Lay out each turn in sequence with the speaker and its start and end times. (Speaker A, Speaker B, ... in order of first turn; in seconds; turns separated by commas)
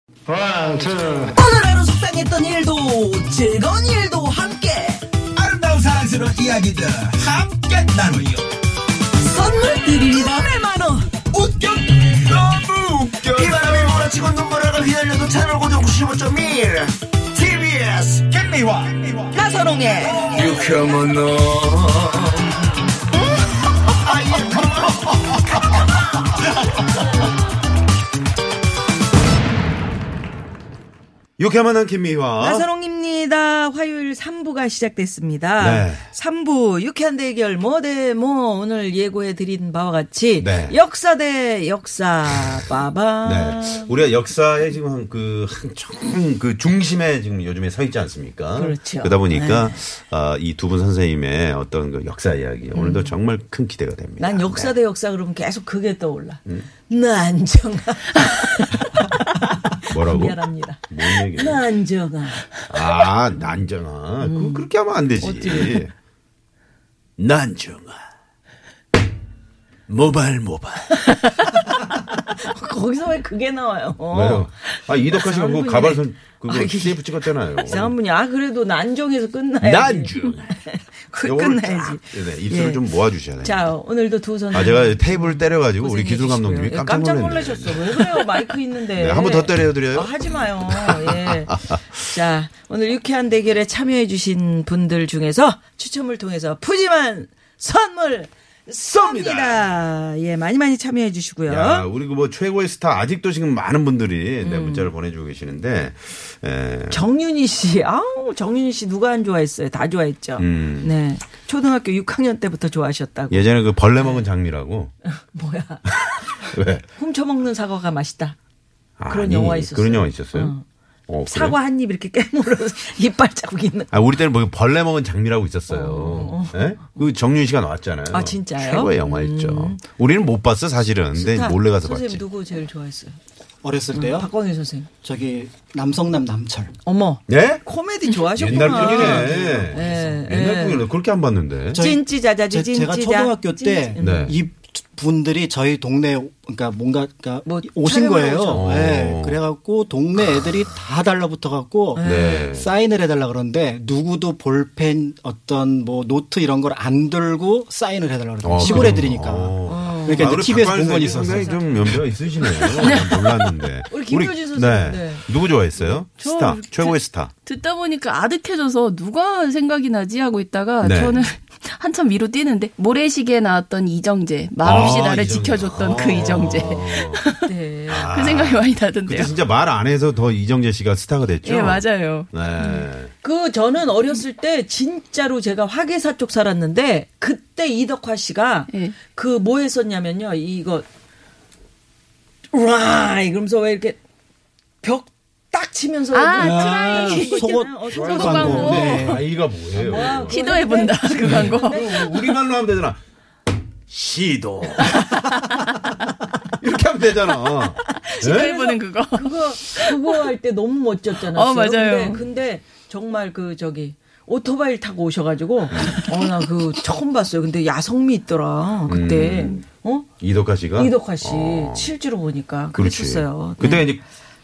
Speaker A: 0.2-1.6, Speaker B: 1.4-5.0, Speaker C: 5.4-6.0, Speaker A: 5.6-8.4, Speaker B: 9.2-11.1, Speaker A: 11.3-12.7, Speaker C: 12.3-14.1, Speaker A: 13.3-19.3, Speaker C: 18.5-18.8, Speaker B: 19.3-20.5, Speaker A: 20.2-22.8, Speaker A: 23.9-26.8, Speaker C: 31.4-32.6, Speaker B: 32.4-43.9, Speaker C: 35.6-36.0, Speaker C: 40.4-40.8, Speaker C: 43.2-54.7, Speaker B: 48.5-49.8, Speaker B: 52.7-53.1, Speaker B: 54.2-63.5, Speaker C: 59.9-61.6, Speaker C: 62.7-65.9, Speaker B: 64.2-64.7, Speaker B: 65.2-65.8, Speaker C: 67.2-68.0, Speaker C: 69.9-71.2, Speaker B: 71.0-71.8, Speaker B: 72.3-82.8, Speaker C: 74.1-77.9, Speaker C: 79.6-80.5, Speaker C: 81.2-83.7, Speaker B: 83.4-101.9, Speaker C: 84.5-88.3, Speaker C: 89.0-90.1, Speaker C: 90.7-91.8, Speaker C: 99.0-99.6, Speaker C: 101.5-107.0, Speaker B: 104.4-104.9, Speaker B: 106.9-114.2, Speaker C: 110.4-110.9, Speaker C: 113.3-114.9, Speaker B: 115.3-118.3, Speaker C: 116.1-116.8, Speaker C: 119.0-120.5, Speaker B: 119.1-120.6, Speaker C: 121.1-121.6, Speaker B: 121.3-123.9, Speaker C: 123.9-132.2, Speaker B: 125.7-127.0, Speaker B: 128.1-129.8, Speaker B: 131.1-133.2, Speaker D: 133.6-134.3, Speaker B: 133.9-134.9, Speaker D: 135.0-136.7, Speaker B: 136.8-140.9, Speaker C: 137.3-137.6, Speaker C: 138.3-141.8, Speaker D: 138.4-140.0, Speaker D: 141.7-161.8, Speaker B: 141.7-144.3, Speaker C: 144.0-144.4, Speaker B: 147.4-148.7, Speaker C: 148.5-149.4, Speaker B: 151.9-152.5, Speaker C: 152.0-152.7, Speaker C: 158.4-167.3, Speaker B: 158.6-159.1, Speaker B: 159.7-161.6, Speaker B: 162.5-163.1, Speaker B: 163.9-165.2, Speaker E: 166.2-177.5, Speaker C: 170.8-171.3, Speaker C: 174.6-177.2, Speaker B: 177.4-178.1, Speaker C: 177.9-183.1, Speaker E: 178.1-179.3, Speaker E: 181.4-182.7, Speaker B: 182.6-190.8, Speaker E: 188.7-188.9, Speaker B: 192.5-194.0, Speaker B: 194.8-199.2, Speaker E: 196.1-199.2, Speaker D: 196.3-199.3, Speaker C: 197.9-200.4, Speaker B: 199.7-202.3, Speaker E: 200.2-201.8, Speaker C: 201.2-203.0, Speaker C: 203.9-205.2, Speaker E: 205.1-205.9, Speaker C: 206.6-208.5, Speaker E: 207.7-210.0, Speaker B: 208.2-220.1, Speaker E: 211.3-212.2, Speaker C: 215.8-216.0, Speaker C: 218.9-219.6, Speaker C: 220.2-221.9, Speaker B: 220.7-223.9, Speaker C: 222.7-224.0